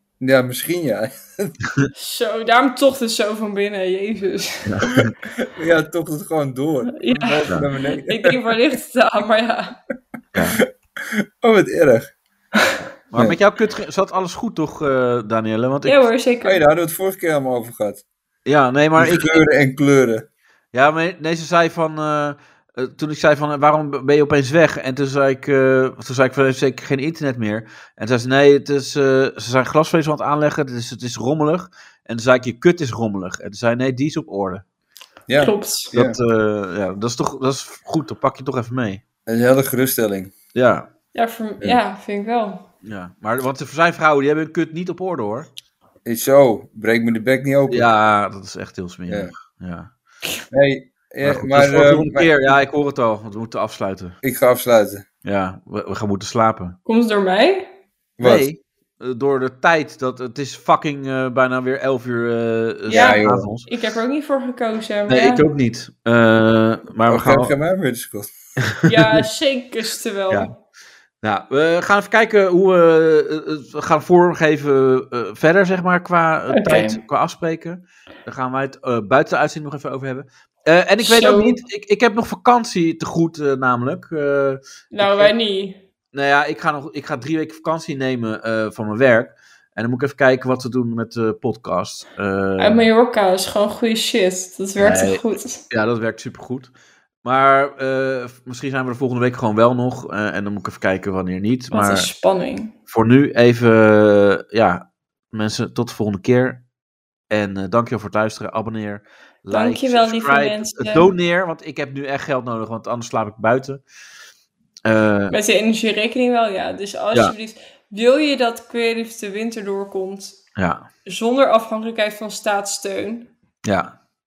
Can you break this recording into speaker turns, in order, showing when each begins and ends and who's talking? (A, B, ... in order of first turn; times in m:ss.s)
0:00.2-0:01.5 A
0:01.9-0:04.7 B
0:04.6-0:05.1 C
0:05.4-0:08.5 A
0:06.9-0:09.8 B
0:11.1-0:12.1 A
0:13.1-0:16.0 C
0:15.8-0:16.6 B
0:16.4-0:18.0 A
0:18.4-0:19.4 C
0:19.0-0:20.3 A
0:20.7-0:34.6 C
0:35.3-0:36.2 A
0:35.4-0:35.9 B
0:35.9-0:39.0 C
0:39.3-0:40.3 A
0:40.5-0:40.9 C
0:41.1-0:42.6 B
0:42.8-0:45.5 C
0:46.0-0:47.9 A
0:47.7-0:49.9 C
0:49.1-0:49.3 A
0:50.5-0:52.3 A
0:51.2-0:54.2 C
0:54.2-0:55.0 A
0:55.2-0:56.8 C
0:56.8-0:57.7 B
0:58.2-0:58.5 A
0:58.2-1:03.7 C
1:02.9-1:03.5 A
1:02.9-1:05.4 B
1:05.1-1:07.5 C
1:07.1-1:08.3 A
1:08.6-1:09.2 C
1:08.8-1:10.5 B
1:11.2-1:25.3 C
1:16.5-1:17.0 B
1:21.0-1:21.6 B
1:24.9-1:25.8 B
1:26.1-1:32.8 C
1:32.6-1:35.6 B
1:34.8-1:36.7 C
1:37.2-1:42.1 C
1:41.7-1:42.7 B
1:42.9-1:46.6 C
1:47.3-1:53.8 C
1:49.5-1:51.1 B
1:54.8-1:55.3 C
1:55.3-2:00.4 B
2:00.6-2:00.8 C
2:01.0-2:03.3 B
2:03.6-2:03.9 C